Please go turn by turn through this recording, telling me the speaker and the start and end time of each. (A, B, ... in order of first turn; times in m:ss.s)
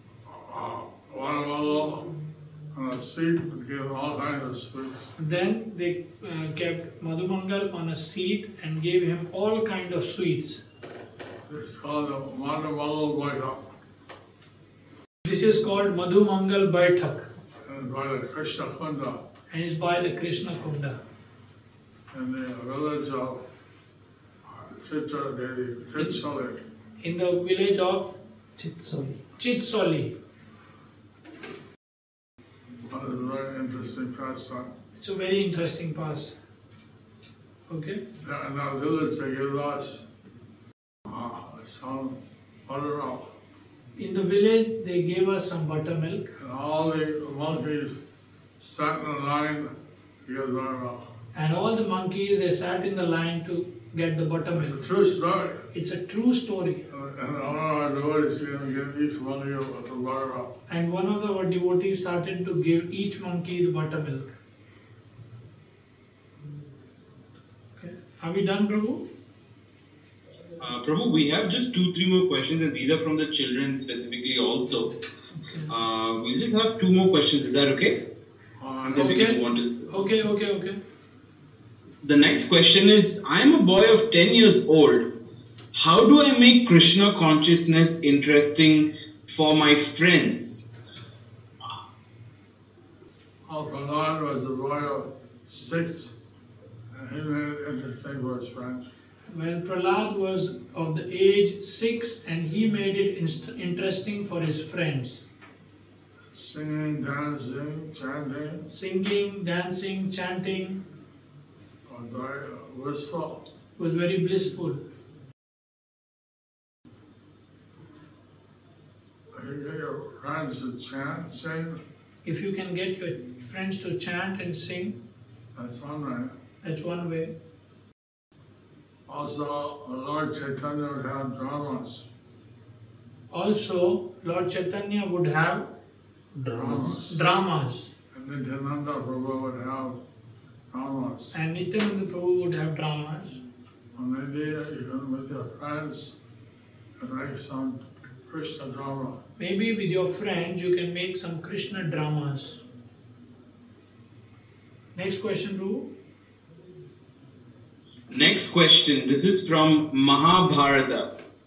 0:00.2-0:02.1 A
0:02.7-0:05.1 A
0:05.2-0:10.6 B
0:11.4-0:13.6 A
0:15.2-0:17.3 B
0:17.6-0:19.2 A
0:19.5-0:21.0 B
0:22.1-0:23.4 A
0:24.4-0:26.6 A
0:27.0-0:30.2 B
0:32.8-0:34.7 A
0:35.0-0:36.3 B
0:37.7-0:38.0 B
0:38.2-0:40.0 A
0:41.0-0:43.3 A
0:44.0-0:46.3 B
0:46.4-0:48.0 A
0:48.6-0:49.7 A
0:50.2-0:51.0 A
0:51.3-0:54.8 B
0:54.5-0:55.6 A
0:55.7-0:56.9 B
0:56.9-1:00.5 A
1:00.7-1:04.3 B
1:07.8-1:09.0 B
1:10.6-1:15.0 C
1:15.7-1:18.0 C
1:18.6-1:19.2 A
1:18.8-1:19.9 C
1:18.9-1:20.8 B
1:22.0-1:25.1 C
1:25.7-1:30.7 C
1:33.4-1:36.1 A
1:36.9-1:38.8 A
1:39.3-1:45.2 B
1:46.3-1:48.7 A
1:48.7-1:50.8 B
1:51.8-1:53.4 A
1:53.8-1:54.8 B
1:59.3-2:01.8 A
2:02.2-2:05.0 B
2:05.5-2:06.3 A
2:06.6-2:07.3 B
2:09.1-2:12.1 A
2:13.3-2:15.7 B
2:16.4-2:17.9 B
2:16.5-2:17.2 A
2:18.1-2:20.0 A
2:20.7-2:21.3 A
2:21.3-2:23.4 B
2:23.9-2:26.2 A
2:27.0-2:29.2 A
2:29.4-2:32.6 B
2:34.9-2:35.9 B
2:38.1-2:41.1 C